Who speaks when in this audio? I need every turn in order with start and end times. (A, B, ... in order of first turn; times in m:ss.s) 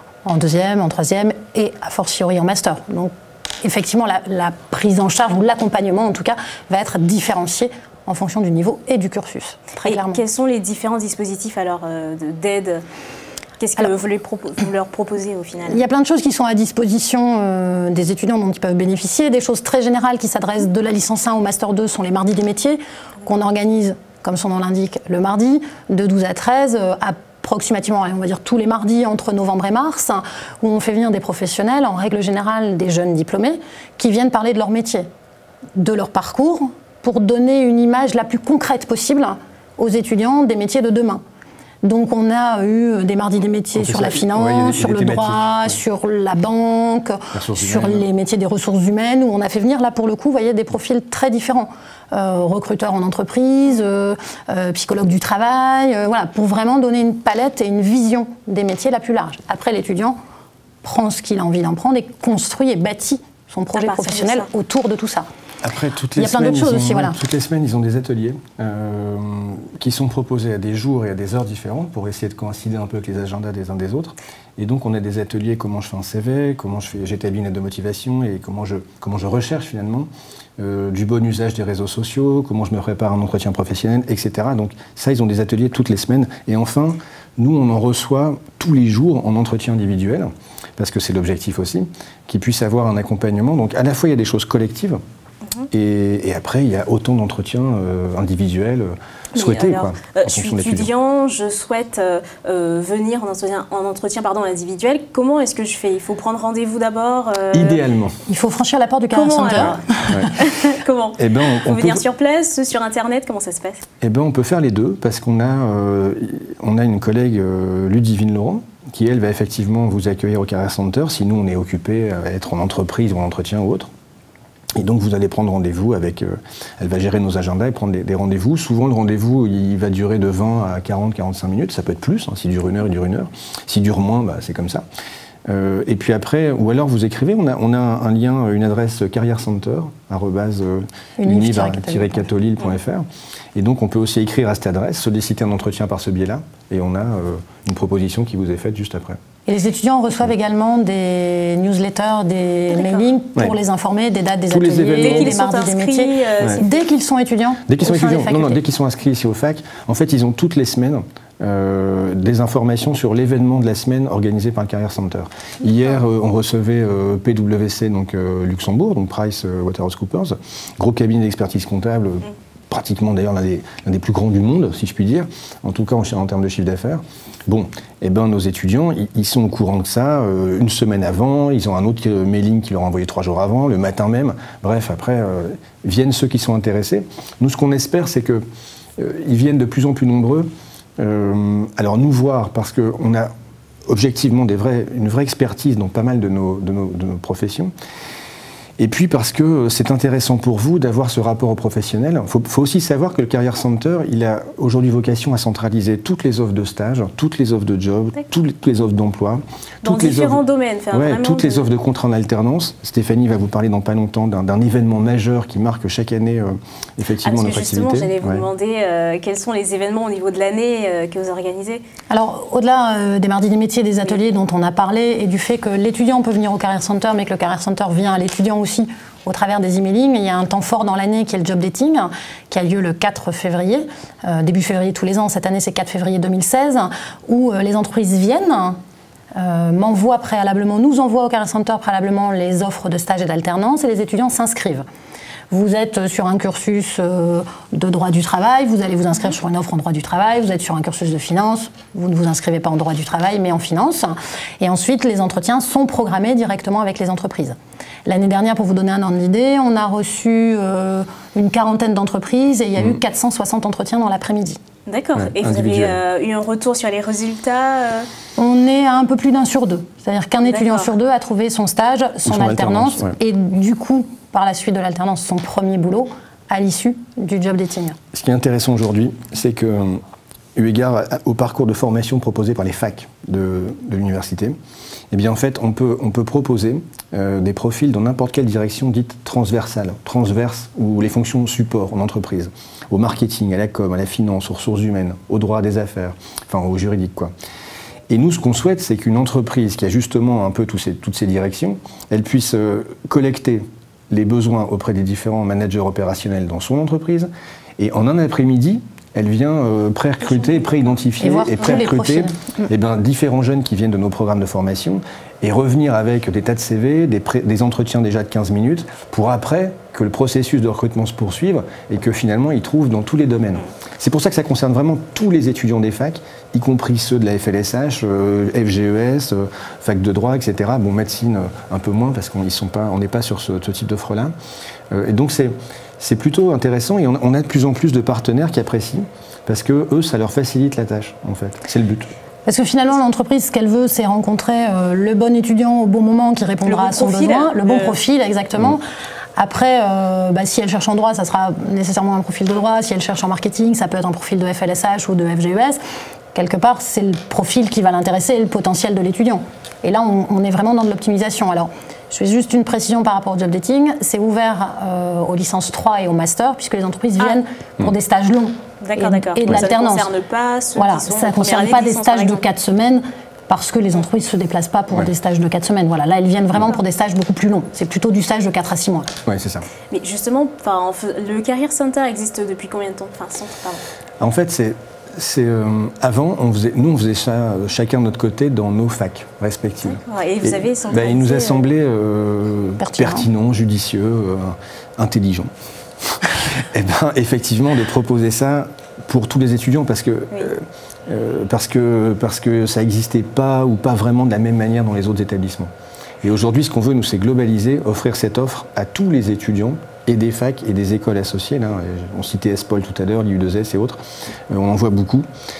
0:00.2-0:10.2 A
0:09.8-0:12.8 B
0:13.6-0:15.8 B
0:15.7-0:35.1 A
0:35.8-0:41.2 A
0:41.8-1:00.2 A
0:43.8-0:45.8 C
0:47.3-0:48.0 C
1:00.8-1:05.3 A
1:03.7-1:04.5 B
1:05.6-1:35.0 C
1:06.2-1:07.2 A
1:35.7-1:40.9 C
1:39.3-1:47.8 B
1:47.5-1:48.2 C
1:48.2-1:50.3 A
1:49.1-1:53.8 B
1:49.6-1:50.3 C
1:51.2-1:52.0 C
1:54.0-2:03.9 C
2:04.8-2:14.8 C
2:15.5-2:29.2 C
2:21.2-2:22.3 A
2:29.4-2:38.6 A
2:32.7-2:33.1 B
2:34.5-2:35.4 C
2:34.9-2:36.8 B
2:37.6-3:08.4 C
3:09.0-3:13.3 C
3:13.9-3:17.7 C
3:18.8-3:38.4 C
3:29.8-3:31.7 B
3:37.2-3:41.8 B
3:42.1-3:58.8 A
3:59.4-4:04.8 A
4:05.5-4:24.6 A
4:24.9-4:28.1 B
4:25.1-4:26.0 C
4:28.4-4:38.0 A
4:30.4-4:30.9 B
4:32.2-4:33.2 C
4:38.1-4:40.0 C
4:40.6-4:44.6 C
4:45.1-4:57.3 C
4:58.1-5:34.3 C
5:11.2-5:12.7 A
5:34.9-5:42.1 C
5:42.4-5:48.8 A
5:46.6-5:48.0 B
5:49.4-5:55.8 A
5:56.3-6:10.1 A
6:08.8-6:12.4 B
6:10.8-6:19.1 A
6:19.2-6:19.7 C
6:19.9-6:23.8 B
6:24.2-6:35.5 C
6:29.8-6:31.7 B
6:32.8-6:33.3 A
6:36.1-6:45.7 C
6:46.2-6:55.3 C